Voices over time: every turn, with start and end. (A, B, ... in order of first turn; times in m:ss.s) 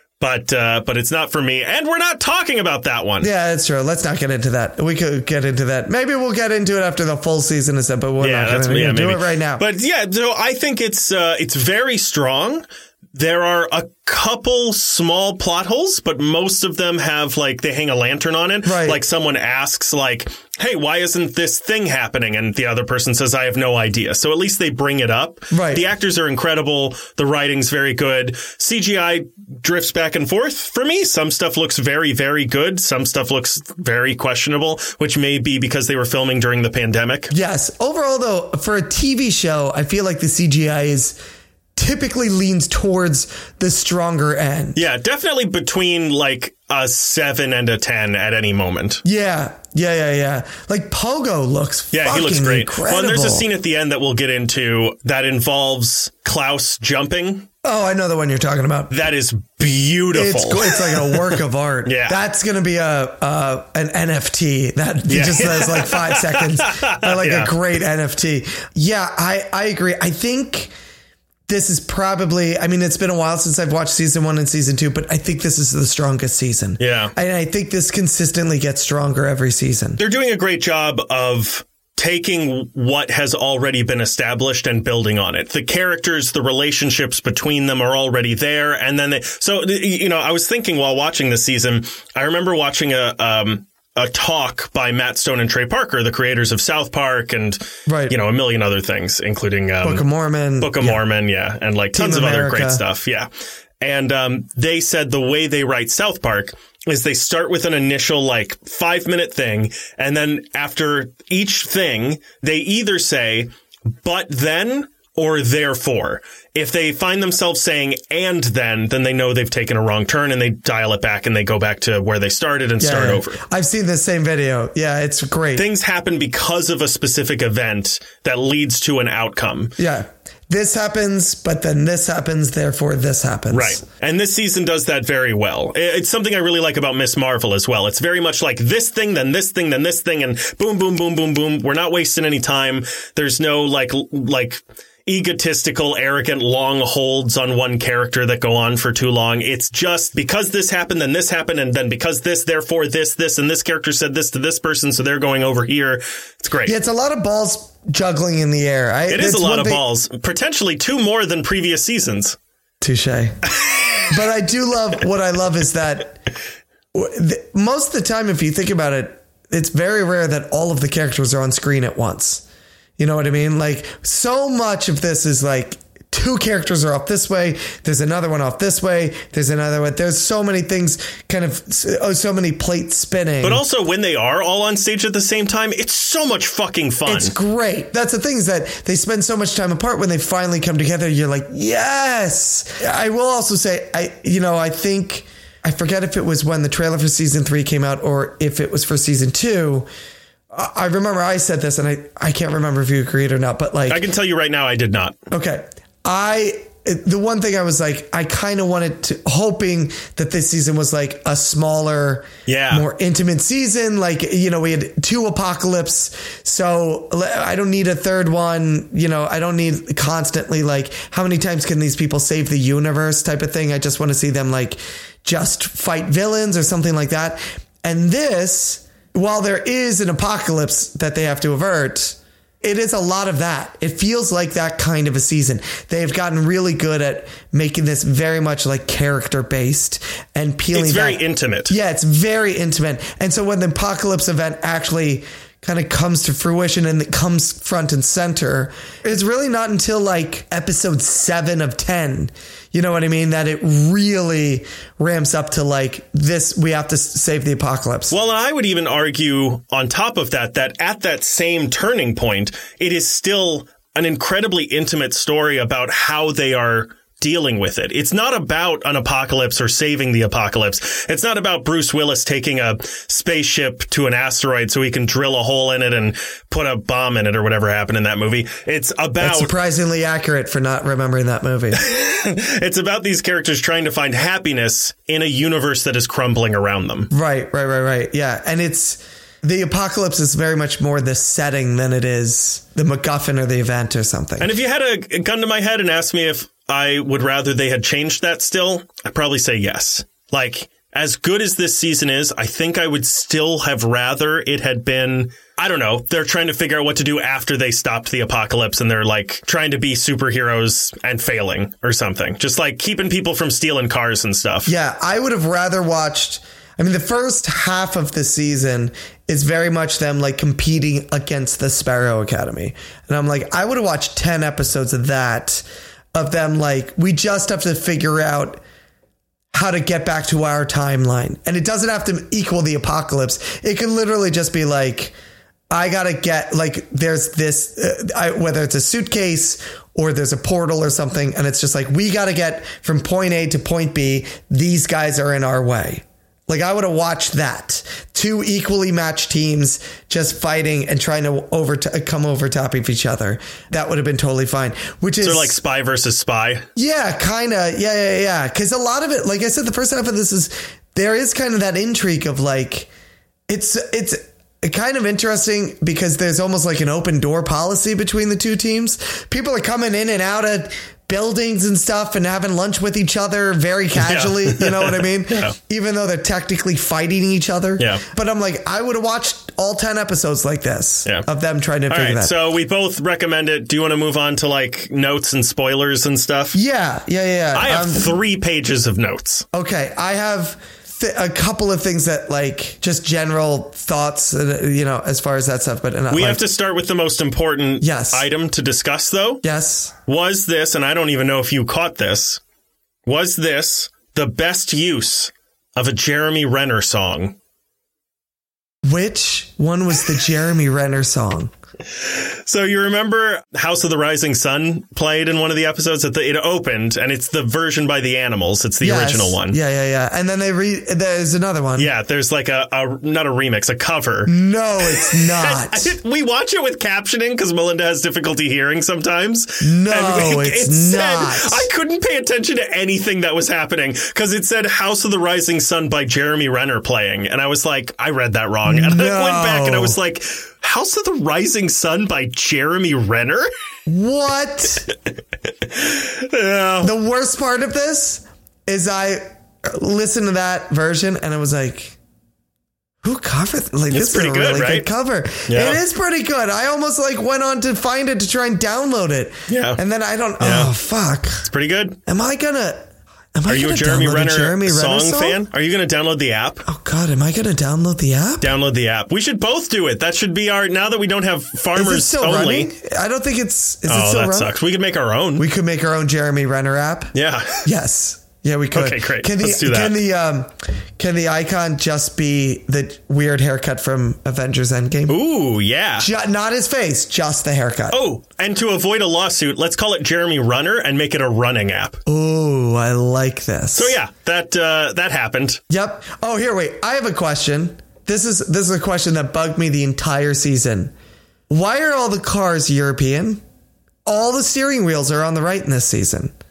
0:00.2-0:03.3 A
0:03.2-0:09.6 B
0:08.2-0:37.3 A
0:18.6-0:19.0 B
0:25.5-0:25.8 B
0:37.3-0:41.2 B
0:41.8-0:44.8 B
0:44.8-0:49.0 A
0:49.0-0:53.5 B
0:51.9-0:57.5 A
0:57.6-0:58.9 B
0:58.9-1:02.2 A
1:00.1-1:10.7 B
1:05.1-1:07.5 A
1:11.5-1:20.0 B
1:16.8-1:17.1 A
1:20.0-1:40.1 A
1:37.9-1:38.2 B
1:39.8-1:41.0 B
1:40.6-1:43.3 A
1:42.0-1:42.8 B
1:43.8-2:03.4 A
2:02.8-2:05.7 B
2:05.6-2:09.8 A
2:09.8-2:13.8 B
2:13.5-2:36.8 A
2:36.6-2:39.8 B
2:39.1-2:42.4 A
2:42.8-2:43.4 B
2:43.6-2:44.1 A
2:44.1-2:46.2 B
2:46.9-2:52.4 B
2:53.0-3:03.6 B
3:03.4-3:07.4 A
3:07.1-3:19.9 B
3:20.5-3:24.0 B
3:23.9-3:25.2 A
3:25.3-4:18.2 B
3:32.5-3:32.9 A
4:00.7-4:01.8 A
4:18.1-4:39.5 A
4:39.2-4:41.8 B
4:41.8-4:47.1 A
4:47.1-4:54.5 B
4:54.4-5:14.7 A
5:14.7-5:28.6 B
5:29.5-5:35.2 B
5:35.7-5:55.6 B
5:55.2-5:56.7 A
5:56.8-6:02.9 B
6:03.5-6:22.3 B
6:14.0-6:15.6 A
6:17.8-6:18.0 A
6:21.9-6:26.6 A
6:26.5-6:28.1 B
6:27.6-6:29.5 A
6:29.5-6:36.4 B
6:36.1-6:39.4 A
6:37.8-6:38.3 B
6:39.4-6:39.9 B
6:40.1-6:42.4 A
6:43.1-6:47.4 A
6:48.8-6:51.5 B
6:52.0-6:59.6 A
6:58.8-7:01.9 B
7:01.8-7:04.3 A
7:04.3-7:05.9 B
7:04.9-7:23.5 A
7:09.6-7:11.7 B
7:18.6-7:20.0 B
7:23.9-7:24.9 B
7:25.6-7:26.9 A
7:26.8-7:32.0 B
7:33.0-7:41.5 B
7:33.9-7:34.9 A
7:35.5-7:35.8 A
7:39.5-7:39.8 A
7:40.4-7:40.7 A
7:41.5-7:42.0 A
7:42.1-7:45.4 B
7:43.5-7:46.7 A
7:46.6-7:48.5 B
7:48.4-7:52.7 A
7:51.8-7:54.6 B
7:53.9-7:55.5 A
7:55.4-7:57.1 B
7:57.1-7:57.7 A
7:57.6-8:05.2 B
7:58.7-8:00.0 A
8:05.1-8:06.1 A
8:06.0-8:08.0 B
8:07.9-8:12.0 A
8:12.1-8:14.0 B
8:13.8-8:15.6 A
8:15.7-8:20.9 B
8:21.5-8:23.4 B
8:24.1-8:26.3 B